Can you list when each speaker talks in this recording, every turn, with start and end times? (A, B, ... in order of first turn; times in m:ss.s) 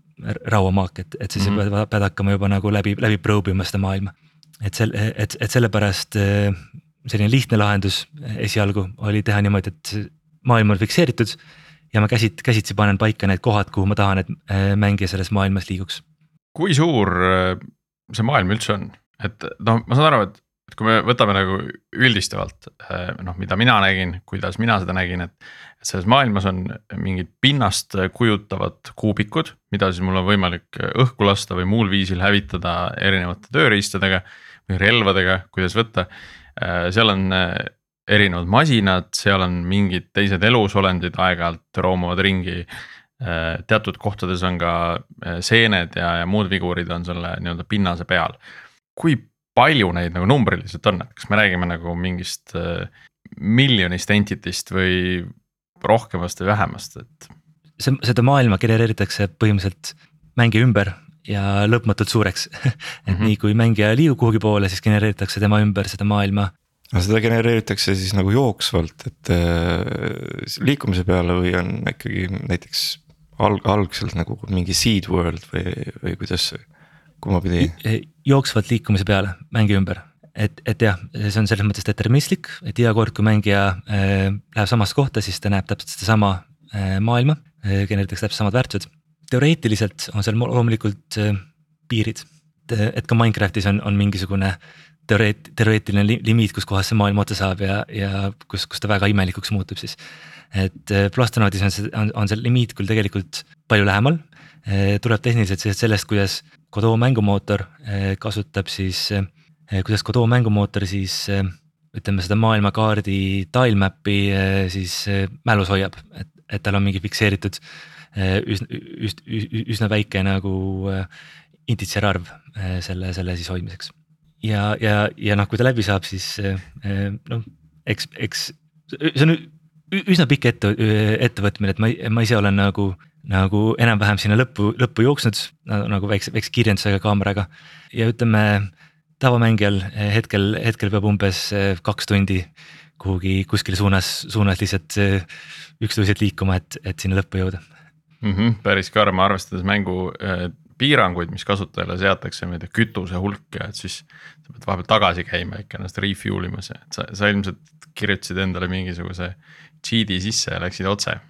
0:00.2-0:11.4 A
0:01.4-0:01.6 B
0:11.9-0:16.0 A
0:16.5-0:42.7 B
0:43.2-0:48.4 B
0:49.0-0:57.3 B
0:57.8-1:06.5 A
1:03.1-1:03.3 B
1:06.9-1:16.6 C
1:17.2-1:17.8 C
1:17.6-1:40.0 A
1:40.5-1:57.6 A
1:58.1-2:01.1 A
2:01.7-2:25.2 A
2:25.8-2:27.6 A
2:28.2-2:41.2 B